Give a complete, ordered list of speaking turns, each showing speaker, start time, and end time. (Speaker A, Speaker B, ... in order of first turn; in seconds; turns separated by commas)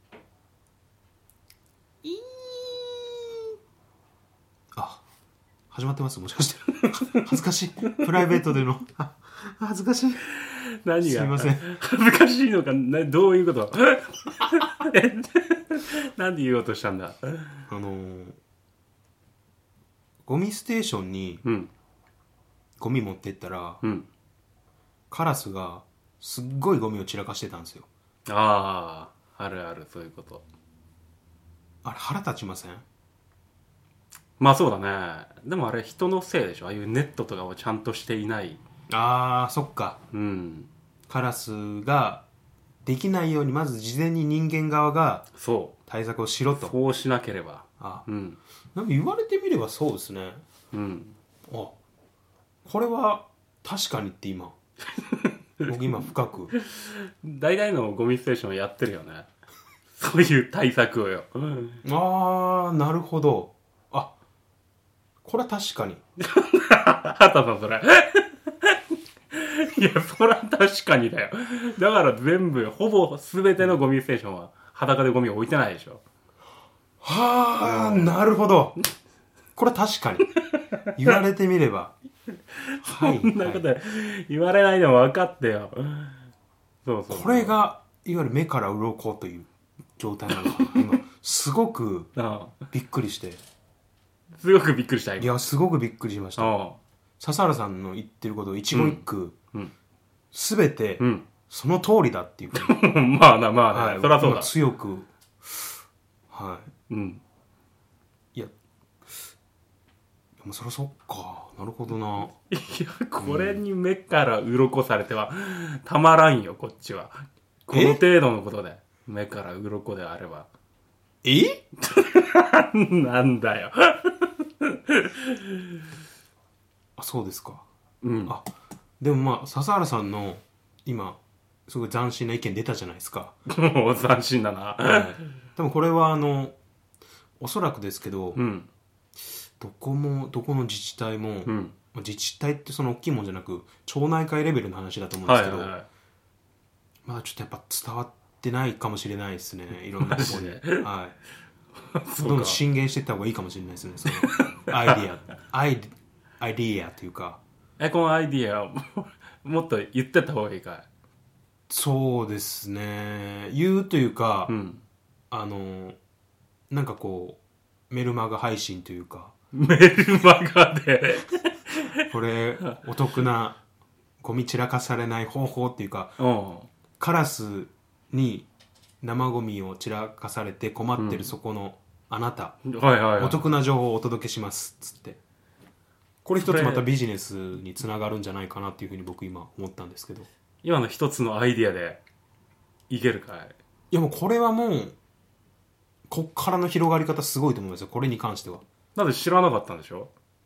Speaker A: 4.8-5.0, Speaker A: 5.7-10.2, Speaker B: 6.9-7.2, Speaker B: 10.2-17.6, Speaker A: 11.0-11.7, Speaker A: 17.7-18.4, Speaker A: 20.3-21.4, Speaker B: 21.4-21.7, Speaker A: 22.8-23.8, Speaker B: 23.8-24.1, Speaker A: 25.1-27.9, Speaker B: 28.3-30.4, Speaker A: 31.8-32.8, Speaker B: 34.4-38.6, Speaker A: 38.9-40.0, Speaker B: 40.1-40.7, Speaker A: 41.1-42.2, Speaker A: 42.8-45.3, Speaker B: 45.4-45.7, Speaker A: 45.9-46.7, Speaker B: 46.5-48.4, Speaker A: 47.8-48.0, Speaker A: 48.7-50.4, Speaker B: 50.7-51.2, Speaker A: 51.5-51.7, Speaker A: 52.6-54.5, Speaker B: 54.9-56.0, Speaker A: 55.6-56.5, Speaker B: 56.5-59.3, Speaker B: 60.0-61.8, Speaker A: 61.8-64.1, Speaker A: 65.2-66.0, Speaker B: 66.2-68.8, Speaker B: 69.3-76.0, Speaker A: 77.0-78.8, Speaker B: 77.6-78.1, Speaker A: 79.5-80.3, Speaker B: 80.5-81.1, Speaker A: 80.9-81.9, Speaker B: 82.5-86.2, Speaker A: 82.8-83.6, Speaker B: 86.8-87.5, Speaker A: 87.1-92.1, Speaker B: 90.4-90.9, Speaker B: 92.1-92.6, Speaker A: 92.7-93.4, Speaker B: 94.4-95.3, Speaker A: 95.2-96.5, Speaker B: 96.4-96.8, Speaker A: 97.2-99.3, Speaker B: 98.7-99.7, Speaker A: 100.3-102.8, Speaker B: 101.0-101.3, Speaker B: 102.5-104.5, Speaker A: 103.7-105.7, Speaker A: 106.3-106.7, Speaker B: 106.9-107.2, Speaker A: 110.4-112.3, Speaker B: 112.5-120.5, Speaker A: 113.2-113.6, Speaker A: 117.7-118.0, Speaker A: 121.2-121.6, Speaker B: 121.8-125.7, Speaker A: 127.0-127.6, Speaker B: 128.0-128.3, Speaker A: 129.0-133.4, Speaker B: 133.5-135.2, Speaker A: 134.8-136.6, Speaker A: 137.4-138.4, Speaker B: 138.3-138.7, Speaker A: 139.6-145.7, Speaker B: 141.5-141.8, Speaker B: 145.2-145.9, Speaker A: 147.1-151.2, Speaker B: 150.0-150.9, Speaker B: 151.9-152.6, Speaker A: 152.2-157.4, Speaker B: 154.1-155.0, Speaker B: 157.8-160.9, Speaker A: 161.7-164.6, Speaker B: 164.5-164.8, Speaker A: 165.3-166.0, Speaker A: 166.7-169.3, Speaker B: 169.5-172.0, Speaker A: 172.1-173.6, Speaker A: 174.2-176.2, Speaker B: 176.2-176.7, Speaker A: 177.0-178.5, Speaker A: 179.0-182.6, Speaker B: 181.0-181.3, Speaker B: 182.7-183.5, Speaker A: 183.2-185.2, Speaker A: 186.2-190.3, Speaker B: 186.4-186.9, Speaker B: 190.6-192.0, Speaker B: 192.9-193.6, Speaker A: 193.9-195.0, Speaker A: 196.1-198.6, Speaker B: 198.9-200.1